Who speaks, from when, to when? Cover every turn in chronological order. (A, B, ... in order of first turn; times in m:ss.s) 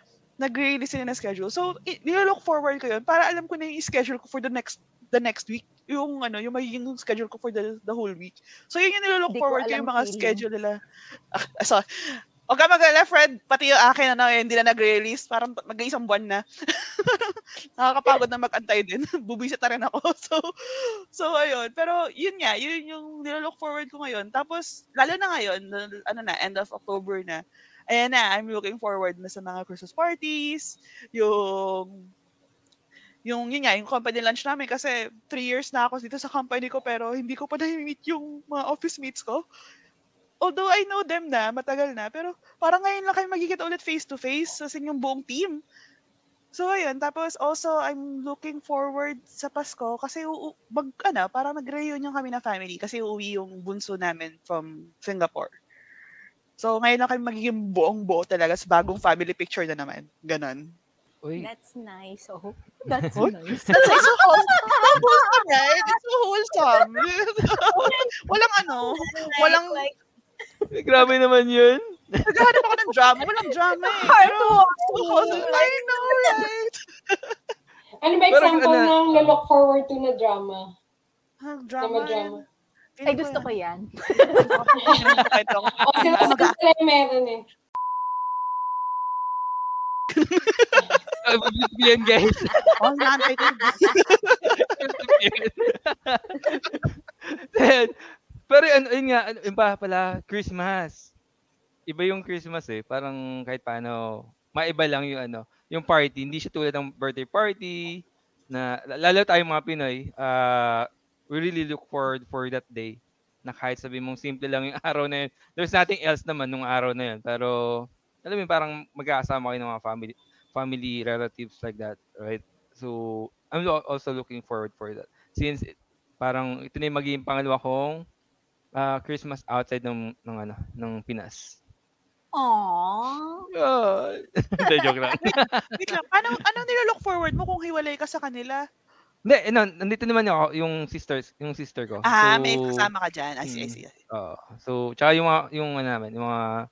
0:00.4-0:10.7 A
0:09.3-0:10.4 B
0:11.4-0:11.8 A
0:12.5-0:32.0 A
0:33.3-0:39.4 A
0:40.4-0:45.6 A
0:46.5-0:55.5 A
0:56.6-1:00.7 A
1:01.2-1:01.5 C
1:01.4-1:06.0 B
1:03.0-1:03.8 C
1:03.2-1:09.8 A
1:06.7-1:07.0 B
1:07.6-1:10.0 B
1:10.7-1:12.5 C
1:12.3-1:17.4 A
1:13.9-1:16.5 B
1:18.0-1:20.7 D
1:18.3-1:19.4 C
1:21.4-1:22.4 A
1:21.8-1:22.4 D
1:23.0-1:23.5 A
1:23.1-1:24.9 B
1:24.2-1:26.6 A
1:24.8-1:25.2 D
1:25.2-1:26.3 C
1:25.8-1:27.4 D
1:30.2-1:31.0 A
1:31.2-1:32.7 C
1:32.8-1:34.7 A
1:34.6-1:37.9 C
1:38.5-1:41.1 C
1:41.9-2:08.0 C
2:08.8-2:11.6 C
2:12.4-2:13.5 B
2:13.5-2:16.0 C
2:15.2-2:18.6 A
2:19.3-2:22.9 C
2:22.0-2:24.0 A
2:23.5-2:26.5 C